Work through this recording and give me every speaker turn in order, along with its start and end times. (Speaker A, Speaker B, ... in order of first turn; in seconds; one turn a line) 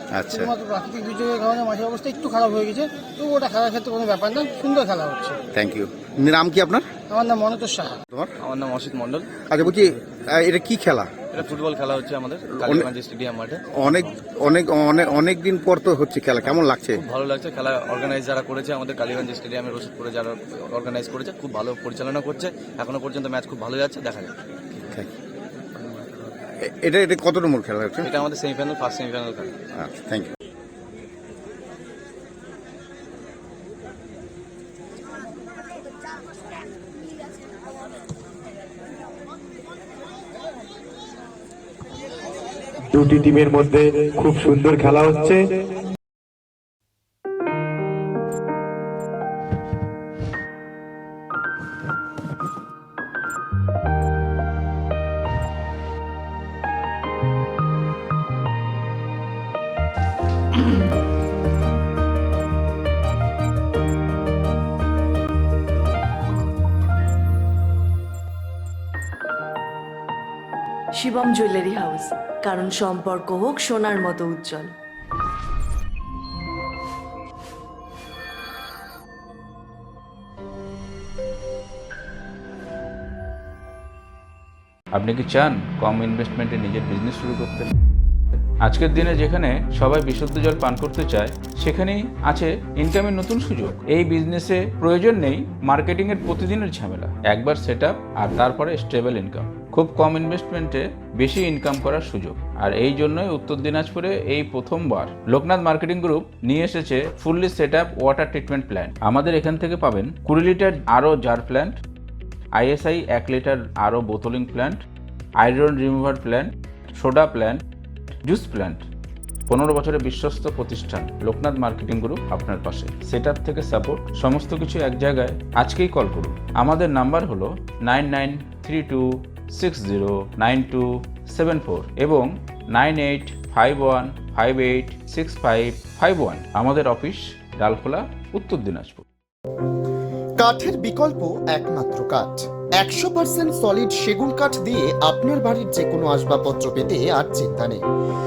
Speaker A: 0.1-0.5
Speaker B: 0.4-5.4
Speaker A: 5.5-6.8
Speaker B: 7.1-7.9
Speaker C: 8.4-10.1
Speaker A: 9.4-11.6
Speaker C: 11.3-14.2
Speaker A: 12.5-12.9
Speaker A: 13.7-17.0
Speaker C: 16.5-24.9
Speaker C: 25.8-26.2
Speaker A: 26.7-28.1
Speaker C: 28.0-29.5
Speaker A: 29.8-30.3
Speaker D: 42.9-43.4
Speaker E: 42.9-45.4
Speaker D: 71.0-74.7
Speaker F: 84.9-87.7
Speaker F: 88.6-111.8
Speaker F: 112.5-114.8
Speaker F: 115.4-117.6
Speaker F: 118.2-118.8
Speaker F: 119.5-139.0
Speaker G: 140.4-147.8